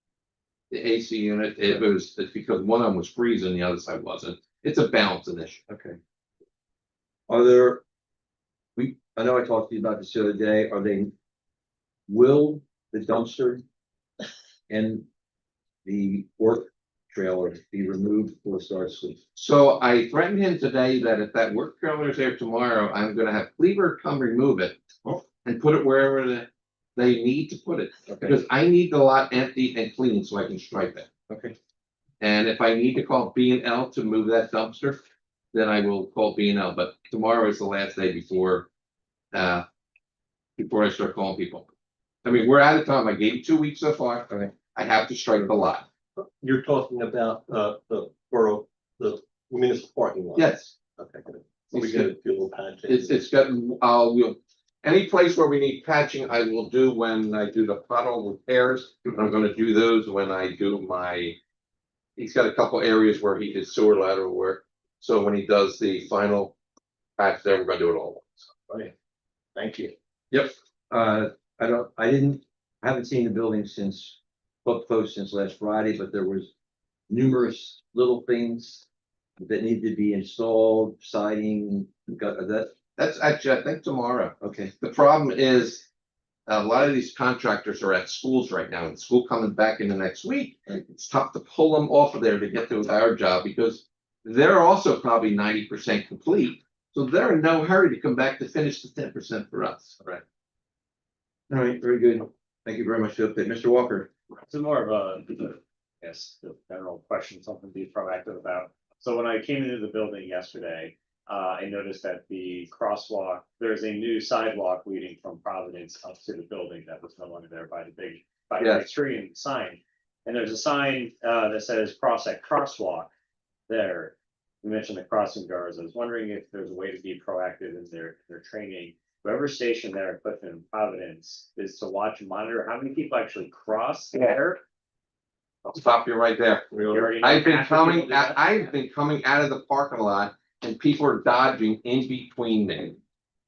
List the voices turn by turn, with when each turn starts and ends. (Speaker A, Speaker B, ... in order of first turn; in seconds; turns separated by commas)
Speaker A: 0.7-5.6, Speaker B: 5.7-6.0, Speaker B: 7.3-7.8, Speaker B: 8.8-11.1, Speaker B: 12.1-13.6, Speaker B: 14.7-15.1, Speaker B: 15.8-19.2, Speaker A: 19.4-24.8, Speaker A: 25.4-31.1, Speaker B: 28.1-28.3, Speaker B: 31.3-31.5, Speaker A: 32.2-35.0, Speaker A: 35.5-38.7, Speaker A: 39.3-39.6, Speaker A: 40.6-41.7, Speaker A: 42.2-45.9, Speaker C: 46.2-53.2, Speaker A: 50.4-50.7, Speaker A: 51.7-52.1, Speaker A: 52.9-61.4, Speaker A: 62.2-66.5, Speaker A: 67.2-68.5, Speaker C: 69.6-69.9, Speaker B: 70.3-76.5, Speaker B: 77.1-78.8, Speaker B: 79.4-82.7, Speaker A: 83.0-85.9, Speaker B: 84.4-84.7, Speaker A: 86.5-100.2, Speaker B: 101.5-104.1, Speaker D: 104.5-123.1, Speaker A: 118.6-118.8, Speaker D: 123.7-134.6, Speaker A: 135.7-143.0, Speaker D: 136.9-138.7